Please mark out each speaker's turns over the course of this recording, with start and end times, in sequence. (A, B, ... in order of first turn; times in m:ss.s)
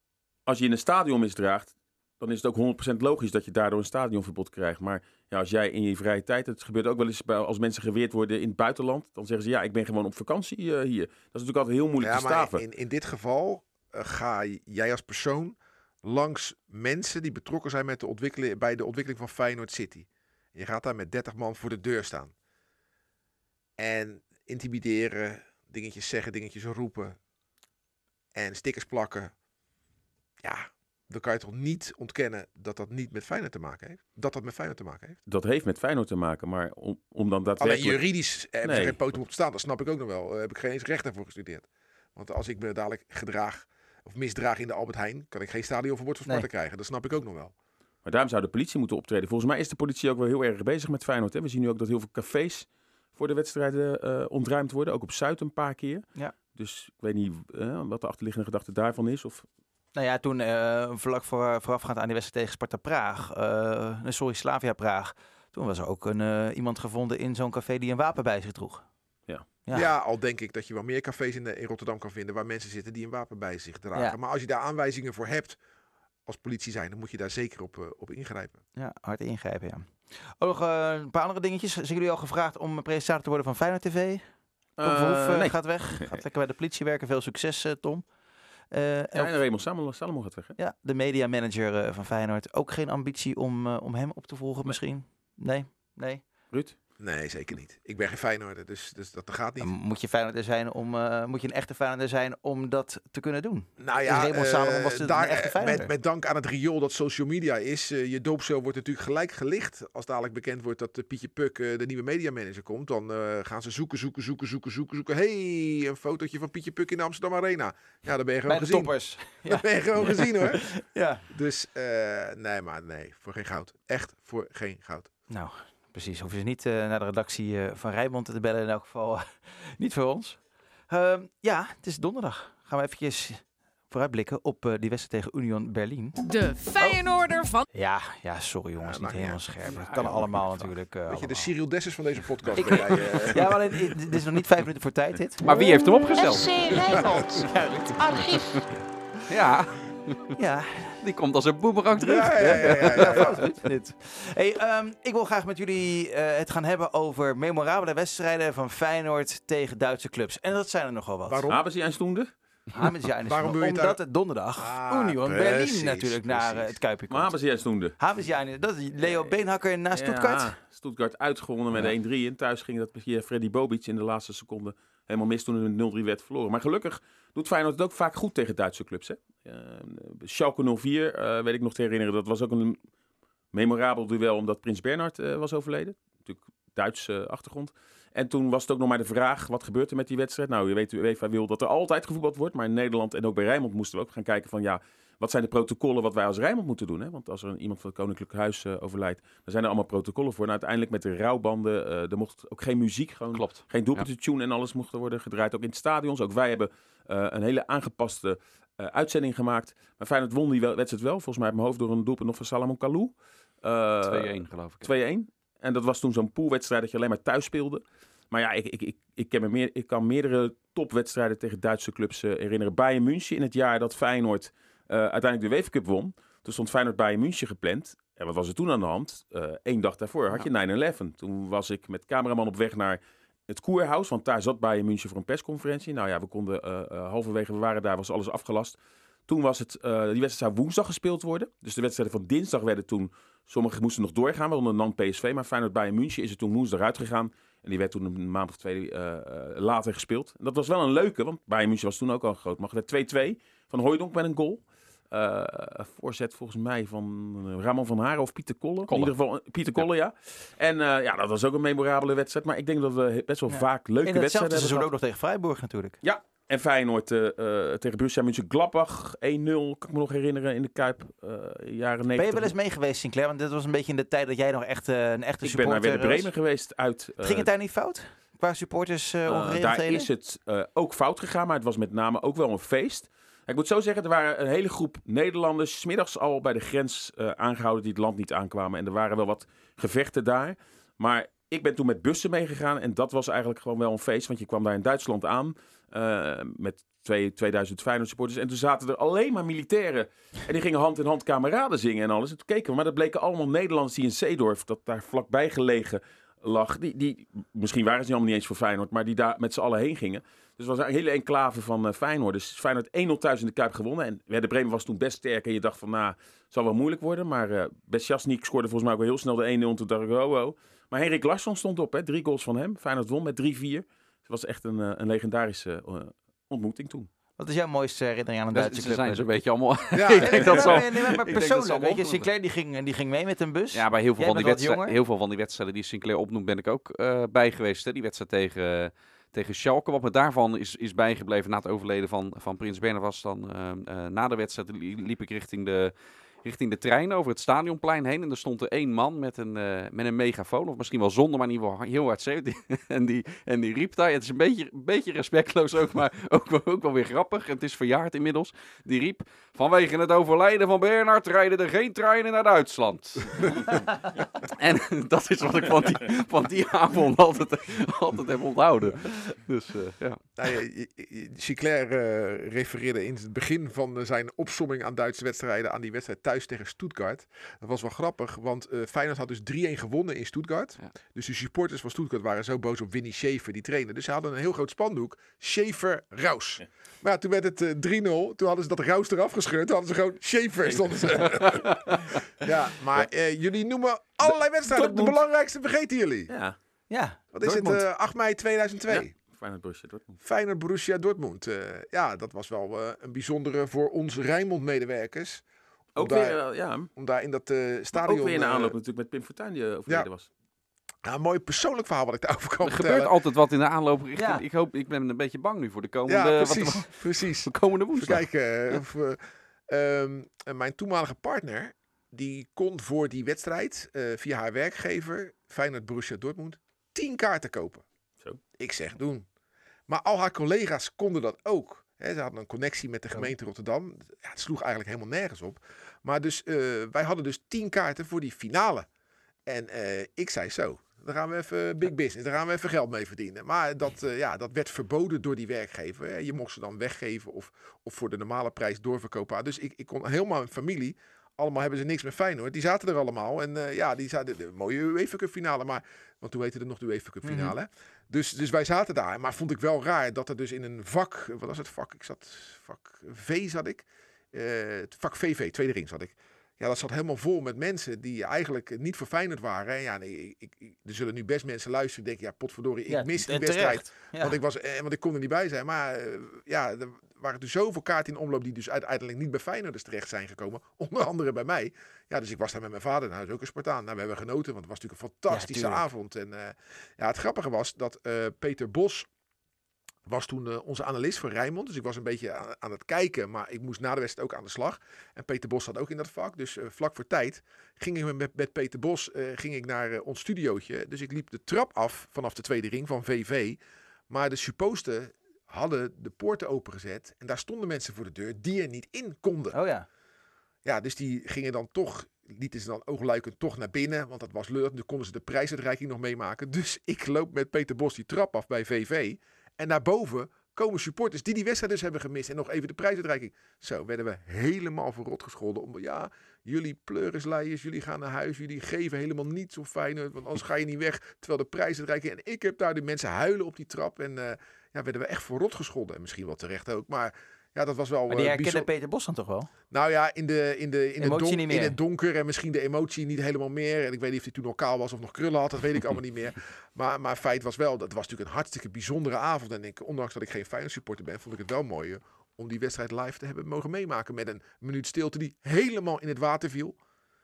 0:00.5-0:12.6 A
0:12.0-0:22.3 B
0:23.8-0:27.2 B
0:28.3-0:29.3 B
0:30.4-0:35.2 B
0:35.3-0:38.0 A
0:37.6-0:47.5 B
0:38.6-0:39.0 A
0:48.0-0:59.5 A
0:59.9-1:08.8 C
1:09.6-1:09.9 C
1:09.7-1:15.6 B
1:16.3-1:18.6 B
1:18.8-1:24.3 C
1:24.8-1:26.2 A
1:24.8-1:28.1 C
1:28.7-1:29.4 C
1:29.2-1:30.6 A
1:30.6-1:36.2 C
1:37.0-1:39.7 B
1:39.6-1:45.9 C
1:43.8-2:00.7 B
1:58.5-2:01.2 C
2:01.3-2:05.1 B
2:05.3-2:16.2 C
2:16.2-2:17.7 D
2:16.8-2:17.1 C
2:17.7-2:21.5 C
2:18.8-2:24.0 B
2:22.6-2:25.6 C
2:25.4-2:26.6 E
2:25.5-2:28.6 D
2:26.9-2:27.3 B
2:27.0-2:28.3 C
2:29.3-2:30.4 E
2:30.4-2:31.0 C
2:31.0-2:33.4 E
2:32.0-2:33.4 B
2:32.4-2:41.5 C
2:41.3-2:41.6 B
2:41.5-2:42.3 A
2:42.8-2:47.4 C
2:43.2-2:44.0 B
2:44.6-2:46.8 B
2:47.1-2:48.0 A
2:48.0-2:50.6 C
2:49.0-2:49.3 A
2:49.9-3:02.8 A
3:03.5-4:24.9 A
3:23.3-3:24.1 E
3:34.0-3:34.9 E
4:18.9-4:19.1 E
4:23.5-4:26.0 C
4:26.0-4:32.5 A
4:32.2-4:36.3 C
4:35.4-4:37.5 A
4:37.2-4:40.1 C
4:39.3-5:27.1 A
5:27.4-5:29.2 C
5:28.5-5:32.3 E
5:29.9-5:30.8 B
5:30.1-5:35.0 C
5:33.7-5:45.9 E
5:46.4-6:10.2 E
6:10.4-6:36.3 B
6:34.2-6:35.2 A
6:36.3-6:36.6 A
6:36.9-6:37.8 C
6:37.3-6:39.1 B
6:38.9-6:40.2 A
6:40.2-6:45.4 B
6:46.0-6:46.9 A
6:46.0-6:48.8 B
6:47.9-6:50.3 A
6:51.0-6:53.1 B
6:52.6-6:58.8 E
6:54.2-6:54.4 C
6:56.1-7:07.8 B
7:08.6-7:09.3 B
7:09.9-7:18.9 B
7:19.5-8:09.1 B
7:37.2-7:37.5 C
7:52.9-7:54.4 C
8:05.3-8:05.8 C
8:10.1-8:29.6 B
8:29.5-8:29.9 C
8:30.6-8:58.7 B
8:58.1-8:59.5 C
8:59.7-9:16.8 B
9:01.0-9:01.8 C